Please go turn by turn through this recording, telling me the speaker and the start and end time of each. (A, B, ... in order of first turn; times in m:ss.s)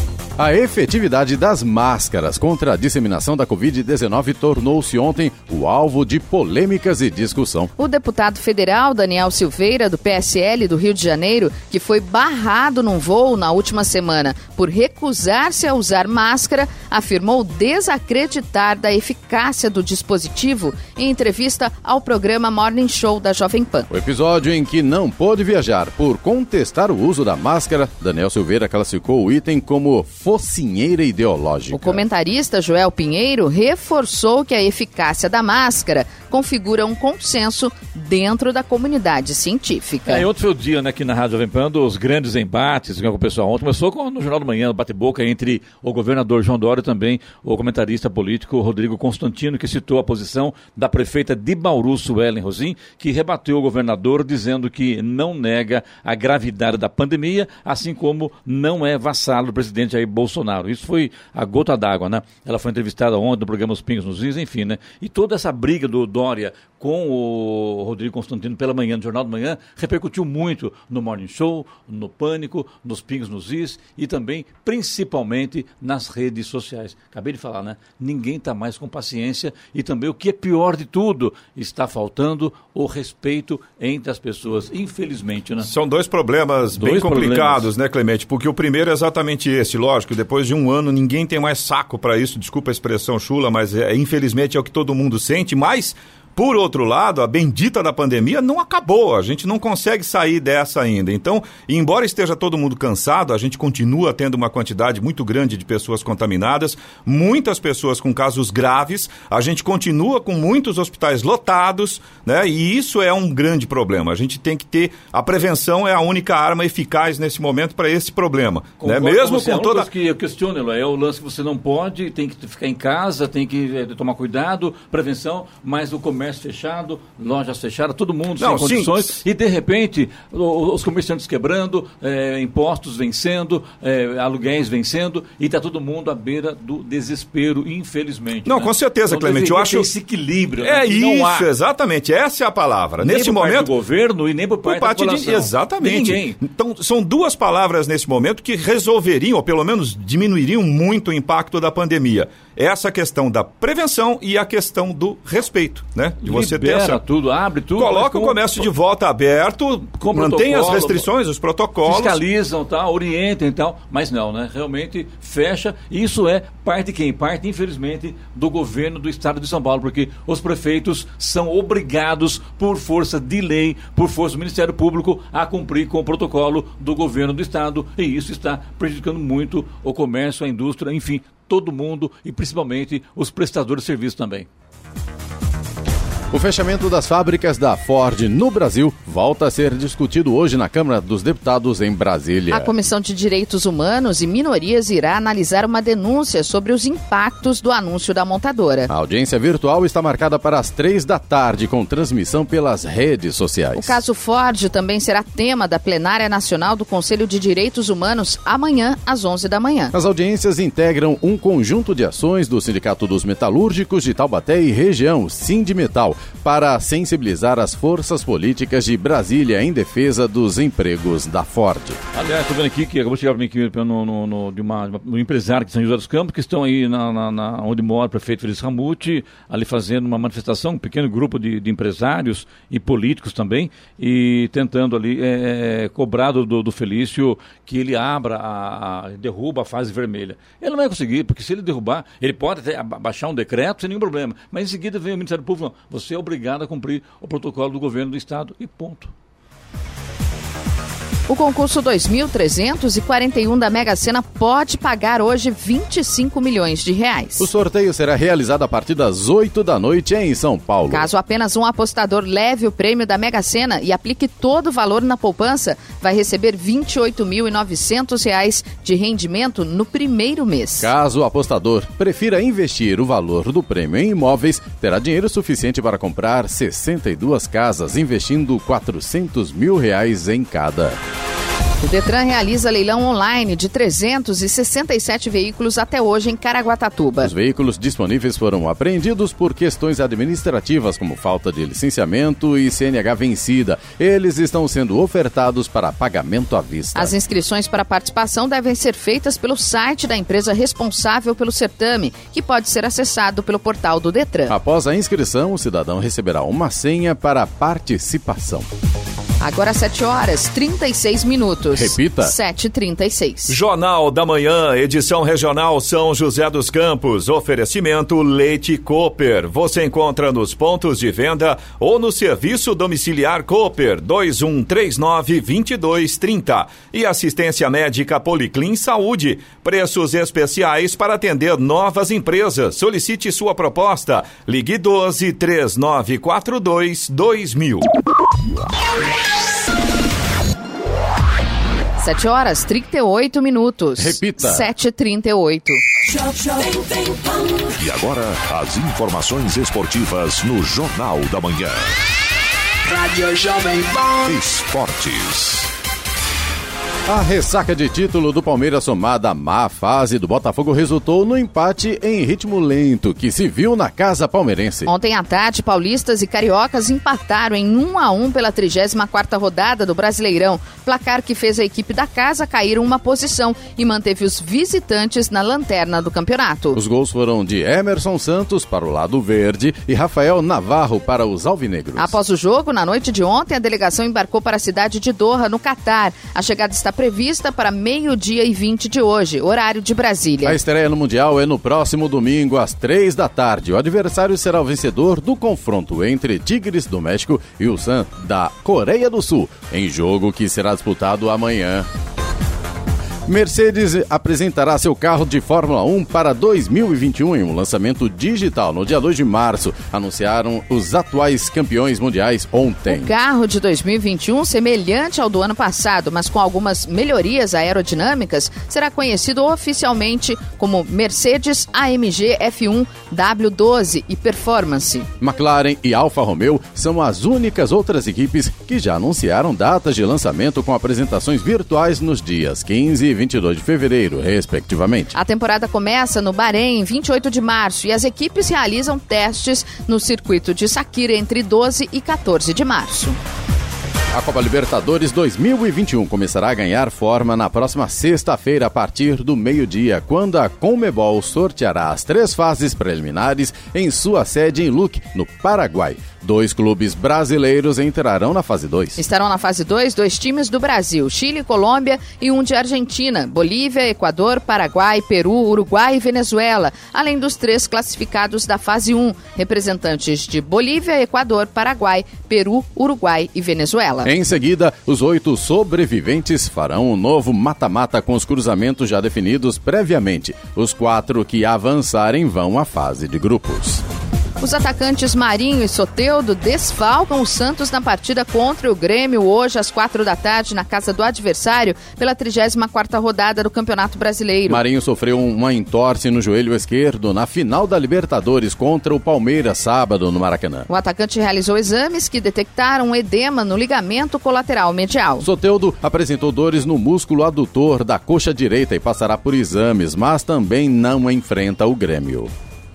0:00.4-0:07.7 A
0:07.8-0:23.9 B
0:23.9-0:32.0 A
0:31.7-0:40.3 B
0:40.0-1:25.7 C
1:25.6-1:59.9 D
1:26.7-1:27.7 C
1:58.8-2:21.5 C
2:08.4-2:09.2 D
2:18.4-2:19.9 D
2:20.6-2:23.7 D
2:23.0-2:26.4 C
2:24.6-2:37.0 D
2:36.2-2:38.7 C
2:37.7-2:42.2 D
2:39.9-2:41.1 C
2:41.8-3:04.5 C
3:06.3-3:12.7 A
3:12.5-3:18.9 B
3:18.9-3:24.0 A
3:23.8-3:29.9 B
3:29.9-3:42.0 A
3:42.1-4:09.1 C
4:11.3-4:17.5 B
4:17.4-4:21.1 A
4:20.9-4:30.9 B
4:30.8-4:41.0 A
4:41.8-4:47.3 B
4:47.2-4:57.1 A
4:56.9-5:04.5 B
5:04.5-5:08.7 A
5:09.4-5:13.6 B
5:11.7-5:12.3 A
5:13.5-5:37.8 D
5:42.0-5:45.8 B
5:44.0-5:44.7 A
5:46.1-5:47.6 E
5:47.8-5:51.9 F
5:52.9-5:54.3 E
5:54.3-5:55.7 F
5:57.1-6:04.9 A
6:04.8-6:16.8 B
6:16.7-6:22.2 A
6:22.0-6:30.6 B
6:30.4-6:41.9 A
6:43.2-6:53.1 A
6:52.9-7:05.1 B
7:05.2-7:15.1 A
7:15.1-7:23.2 B
7:24.1-7:39.0 A
7:39.0-7:54.1 B
7:54.0-8:03.8 A
8:04.4-8:14.6 B
8:14.5-8:20.7 A
8:20.7-8:25.2 B
8:25.2-8:32.3 A